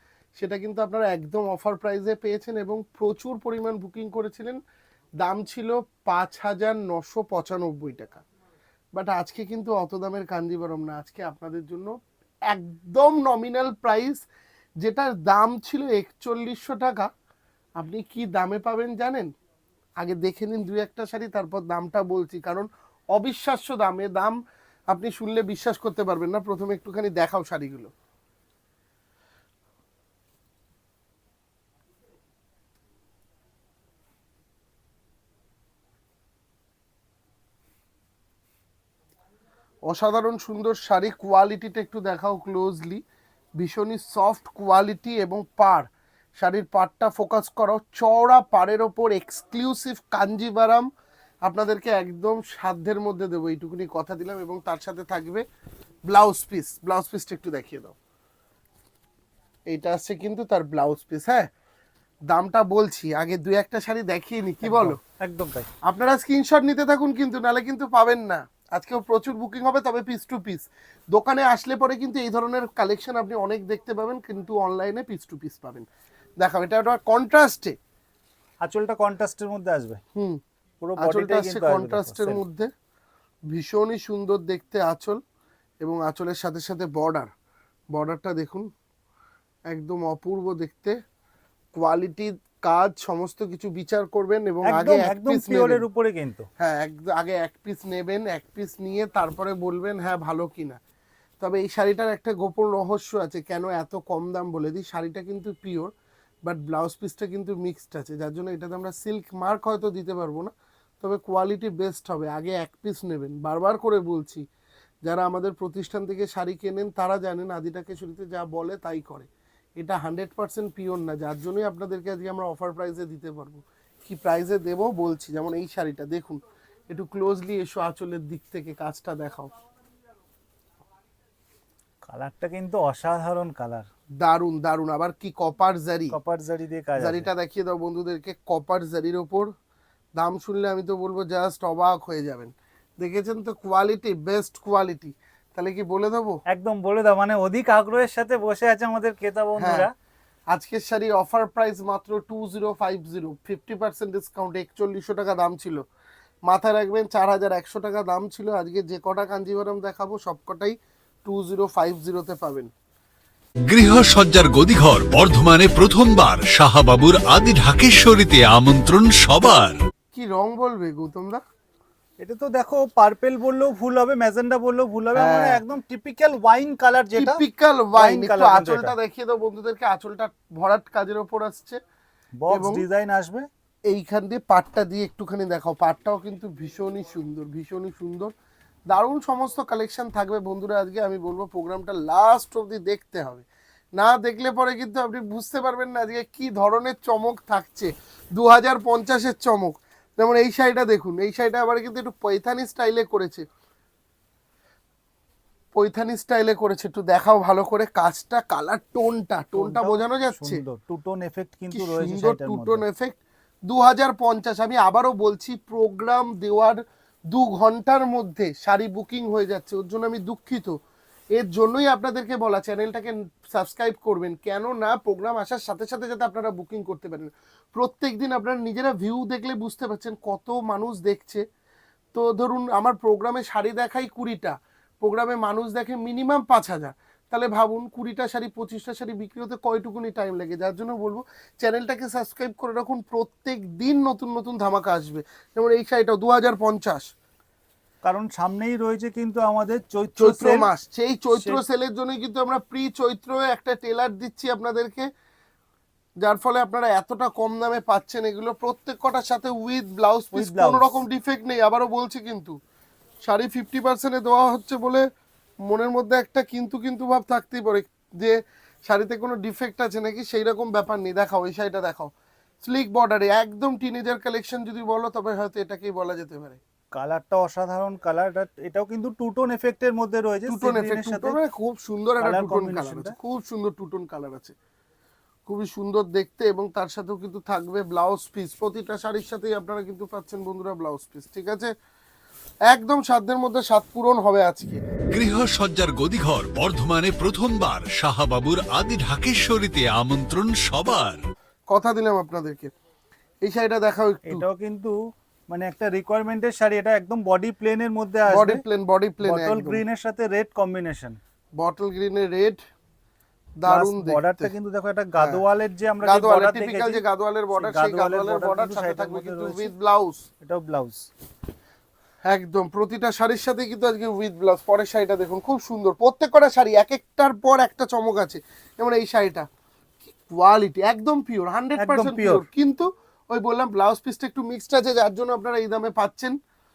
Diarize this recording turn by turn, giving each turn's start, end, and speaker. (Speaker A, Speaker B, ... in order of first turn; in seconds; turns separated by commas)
Speaker A: 0.4-4.6, Speaker A: 5.2-8.2, Speaker A: 8.9-11.9, Speaker A: 12.5-14.2, Speaker A: 14.8-17.1, Speaker A: 17.8-19.3, Speaker A: 20.0-24.4, Speaker A: 24.9-27.9, Speaker A: 39.9-43.0, Speaker A: 43.6-50.9, Speaker A: 51.5-55.5, Speaker A: 56.1-57.9, Speaker A: 59.7-61.5, Speaker A: 62.3-65.0, Speaker B: 64.6-65.7, Speaker A: 65.8-75.9, Speaker A: 76.4-77.8, Speaker B: 78.6-80.0, Speaker B: 80.8-82.4, Speaker A: 81.0-82.7, Speaker A: 83.5-85.2, Speaker A: 85.8-87.3, Speaker A: 87.9-88.7, Speaker A: 89.7-91.0, Speaker A: 91.8-95.8, Speaker B: 94.6-96.5, Speaker A: 96.6-100.8, Speaker A: 101.4-105.9, Speaker A: 106.5-114.4, Speaker A: 115.0-129.5, Speaker B: 132.1-133.9, Speaker A: 134.2-136.2, Speaker B: 136.1-137.3, Speaker A: 137.0-139.5, Speaker A: 140.2-146.4, Speaker B: 146.5-149.9, Speaker A: 149.6-149.9, Speaker A: 150.5-155.8, Speaker A: 156.5-162.7, Speaker C: 163.7-169.8, Speaker A: 170.1-171.4, Speaker B: 172.2-177.4, Speaker A: 175.2-175.6, Speaker A: 177.2-181.8, Speaker B: 177.9-178.9, Speaker B: 182.4-183.5, Speaker A: 182.5-182.8, Speaker A: 183.9-188.3, Speaker A: 188.9-193.5, Speaker A: 194.0-203.5, Speaker A: 205.8-210.6, Speaker B: 209.6-212.8, Speaker A: 211.7-216.8, Speaker A: 217.3-220.8, Speaker A: 221.4-231.4, Speaker A: 232.1-247.1, Speaker B: 248.0-250.7, Speaker A: 250.2-255.1, Speaker B: 251.4-251.6, Speaker A: 256.2-262.6, Speaker B: 260.3-261.0, Speaker A: 263.2-265.0, Speaker A: 265.7-272.1, Speaker A: 272.6-276.6, Speaker B: 276.9-281.4, Speaker A: 280.5-284.6, Speaker B: 282.2-283.1, Speaker A: 285.5-291.7, Speaker A: 292.7-294.8, Speaker C: 295.1-301.2, Speaker A: 301.7-302.7, Speaker A: 303.4-304.4, Speaker B: 304.3-305.0, Speaker B: 305.5-308.6, Speaker A: 308.3-309.8, Speaker B: 309.2-311.2, Speaker A: 311.6-312.6, Speaker A: 313.6-314.5, Speaker B: 313.7-317.0, Speaker A: 316.0-320.2, Speaker B: 317.5-319.7, Speaker B: 320.4-321.1, Speaker A: 322.2-329.5, Speaker A: 330.1-336.4, Speaker B: 331.8-332.5